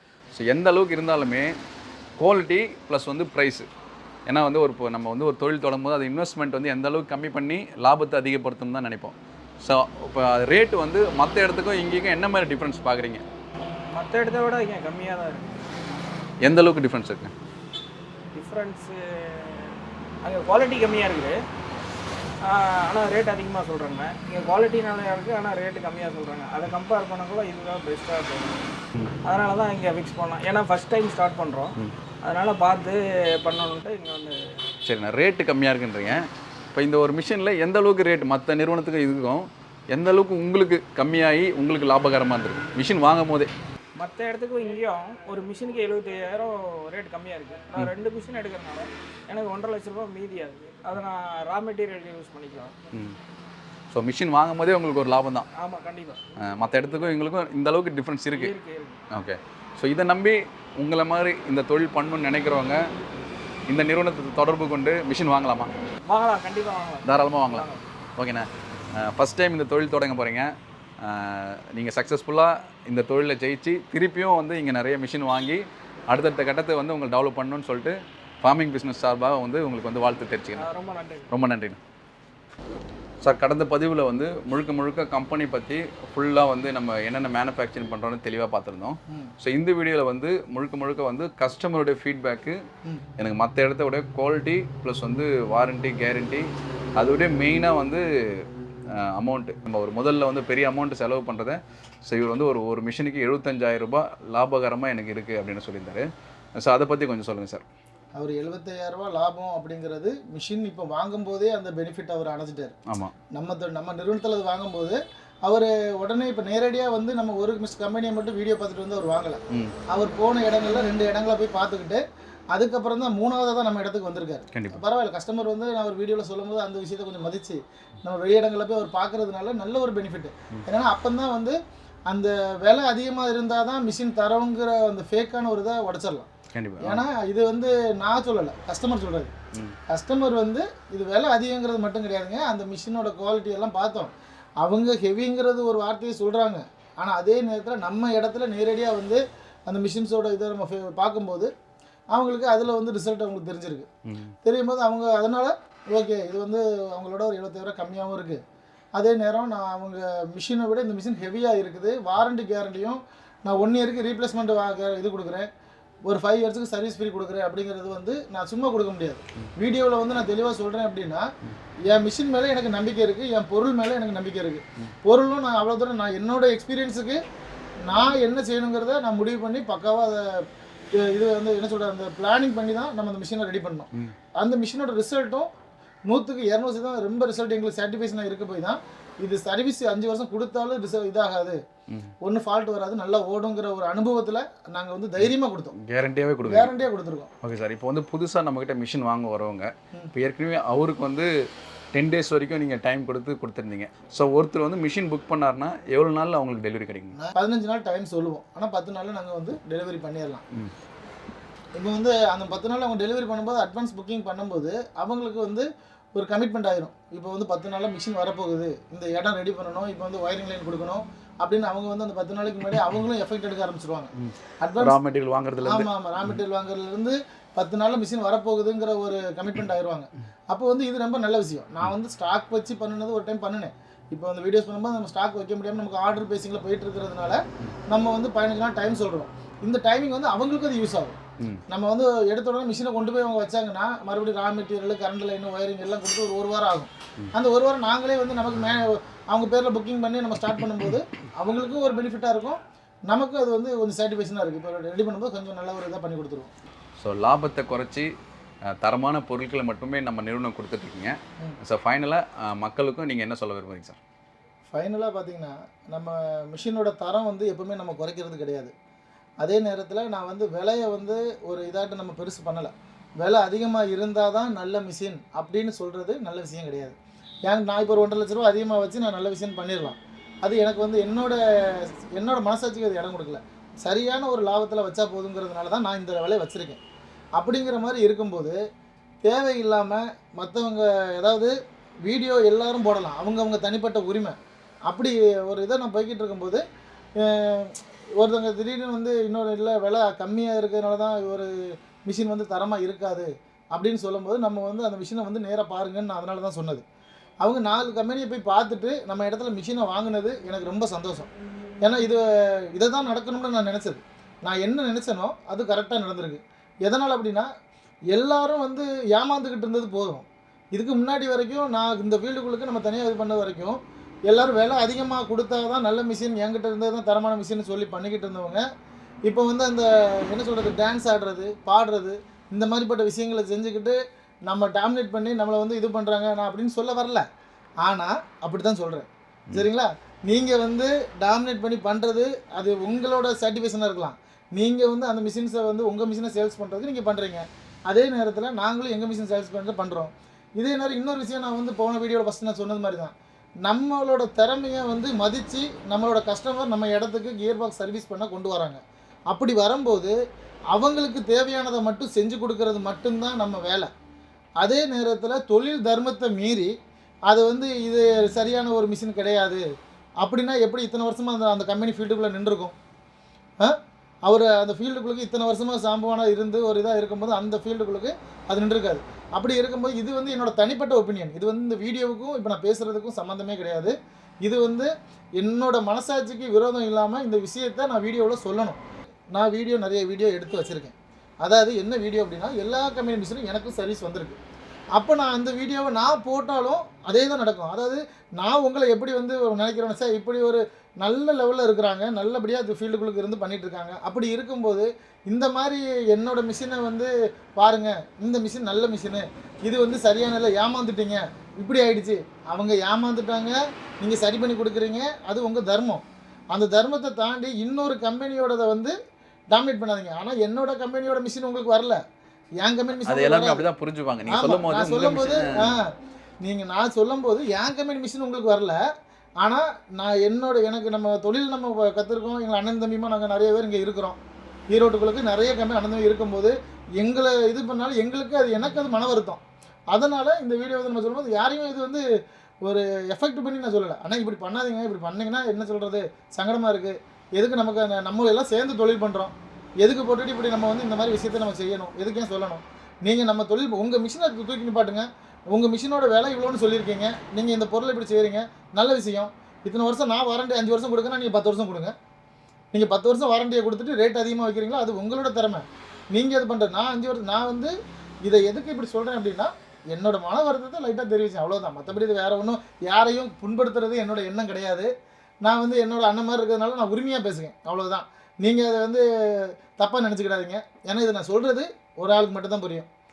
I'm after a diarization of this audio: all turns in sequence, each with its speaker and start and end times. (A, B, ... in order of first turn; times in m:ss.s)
0:00.4-0:01.5 A
0:02.2-0:03.7 A
0:04.3-0:13.2 A
0:13.9-0:16.0 B
0:16.4-0:17.3 A
0:18.4-0:21.4 B
0:22.4-0:28.7 B
0:29.2-0:34.4 B
0:34.8-0:43.5 A
0:44.0-0:52.7 B
0:53.9-0:55.5 A
0:55.6-0:56.2 B
0:56.4-0:58.5 A
0:58.3-0:59.0 B
0:59.1-1:02.8 A
1:03.7-1:05.7 A
1:06.1-1:07.8 B
1:07.0-1:20.7 A
1:20.6-1:21.3 B
1:21.3-1:21.8 A
1:23.2-1:32.6 A
1:33.2-1:36.5 A
1:37.0-1:46.1 A
1:46.6-1:47.7 A
1:48.2-1:52.8 C
1:52.9-1:53.2 A
1:53.3-2:02.0 C
2:02.5-2:16.3 C
2:04.5-2:04.8 A
2:16.5-2:17.0 A
2:16.8-2:19.3 C
2:19.9-2:24.1 C
2:24.6-2:31.5 C
2:32.1-2:33.9 C
2:34.1-2:34.4 A
2:34.4-2:38.4 C
2:39.0-2:45.5 C
2:46.1-2:51.3 C
2:51.9-2:57.2 C
2:57.9-3:00.4 C
3:01.0-3:05.5 C
3:06.1-3:11.6 C
3:12.2-3:15.8 C
3:15.2-3:16.8 A
3:16.4-3:17.3 C
3:17.4-3:21.3 A
3:21.9-3:27.2 A
3:27.2-3:30.4 C
3:31.8-3:45.0 C
3:44.2-3:46.4 A
3:45.6-4:16.5 C
4:17.0-4:18.1 A
4:18.7-4:24.0 A
4:24.7-4:28.7 C
4:29.4-4:37.0 C
4:37.5-4:46.8 C
4:47.4-4:48.6 C
4:49.2-4:51.5 C
4:52.0-4:54.4 C
4:54.9-4:56.6 C
4:57.2-5:01.5 C
5:02.1-5:06.8 C
5:07.4-5:11.3 C
5:11.8-5:12.2 C
5:12.8-5:17.5 C
5:18.1-5:28.6 C
5:29.3-5:37.2 C
5:37.8-5:53.1 C
5:53.6-6:00.2 C
6:00.7-6:03.9 C
6:04.6-6:06.7 C
6:07.3-6:09.6 C
6:10.2-6:12.7 C
6:14.3-6:23.9 C
6:24.4-6:28.8 C
6:29.3-6:34.4 C
6:35.0-6:56.0 C
6:56.5-6:58.9 C
6:59.5-7:02.0 C
7:02.6-7:03.7 C
7:03.0-7:05.8 A
7:04.3-7:05.9 C
7:06.4-7:08.8 C
7:09.4-7:14.2 C
7:14.7-7:19.4 C
7:19.9-7:22.0 C
7:22.6-7:41.9 C
7:42.7-7:47.7 C
7:48.2-7:54.9 C
7:55.4-8:02.9 C